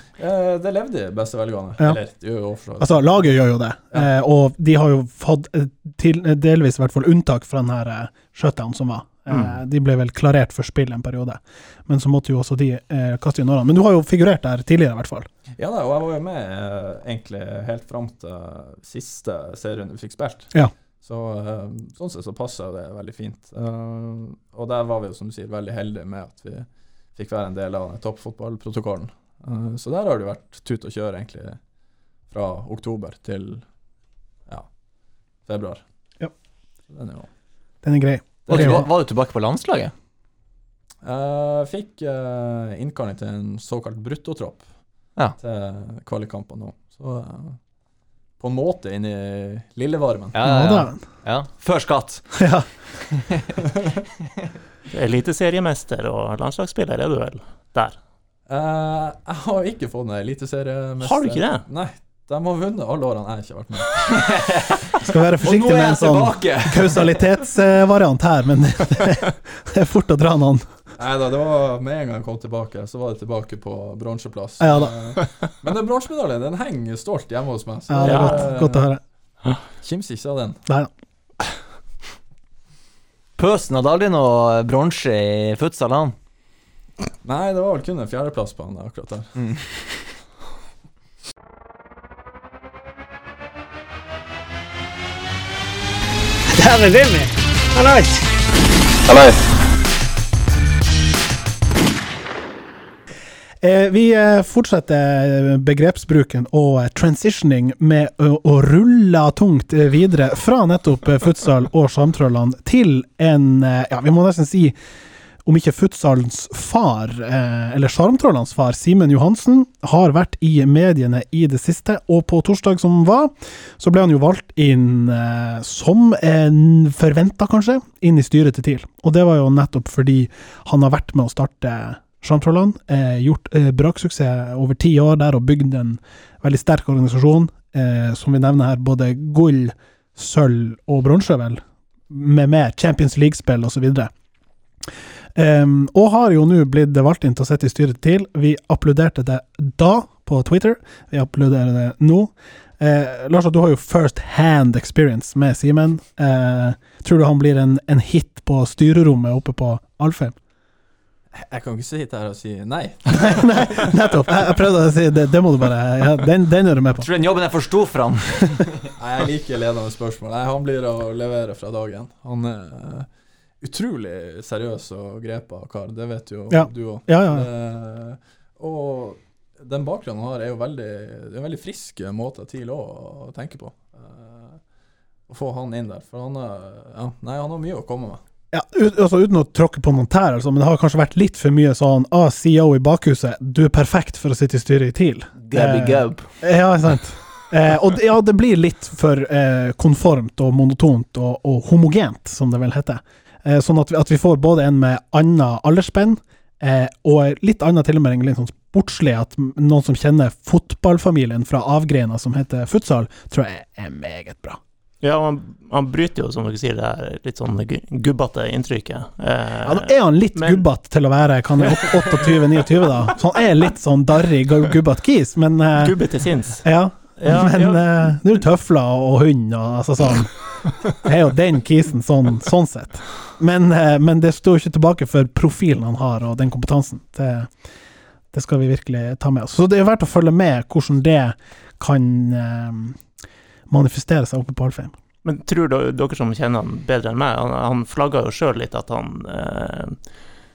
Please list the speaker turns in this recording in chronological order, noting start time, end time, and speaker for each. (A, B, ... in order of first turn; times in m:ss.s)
0:00.2-0:03.2 A
0:02.8-0:15.3 B
0:09.3-0:09.6 C
0:15.6-0:20.5 A
0:21.0-0:31.6 A
0:32.3-0:33.6 A
0:35.4-0:35.8 A
0:36.9-0:37.3 A
0:37.8-0:38.8 B
0:38.5-0:38.9 A
0:38.5-0:39.9 D
0:41.0-0:44.6 A
0:45.4-0:47.6 A
0:48.4-0:50.4 A
0:50.3-0:52.2 D
0:50.4-0:51.0 B
0:52.4-0:52.7 B
0:54.9-0:58.0 C
0:58.5-1:04.0 A
1:01.0-1:01.6 C
1:04.1-1:04.9 D
1:05.0-1:10.6 B
1:05.4-1:07.2 D
1:11.0-1:18.9 A
1:14.6-1:14.9 B
1:17.9-1:19.0 B
1:18.0-1:18.5 C
1:19.8-1:20.6 A
1:23.4-1:26.1 D
1:27.2-1:29.3 A
1:36.5-1:38.2 E
1:39.0-1:39.4 E
1:43.6-1:54.8 B
1:55.4-2:24.1 B
2:25.3-2:40.3 B
2:41.3-2:43.9 A
2:43.1-2:47.1 B
2:47.0-2:48.9 D
2:49.0-2:53.1 A
2:53.6-3:04.6 A
2:56.5-2:57.5 B
3:05.3-3:08.2 A
3:08.5-3:34.6 B
3:15.4-3:16.3 D
3:35.0-3:40.6 C
3:39.6-3:46.0 B
3:41.6-3:42.4 C
3:45.8-3:46.6 C
3:46.6-3:50.4 B
3:47.2-3:48.0 C
3:50.9-3:57.5 B
3:58.3-4:03.0 B
4:03.7-4:04.9 B
4:05.2-4:10.0 C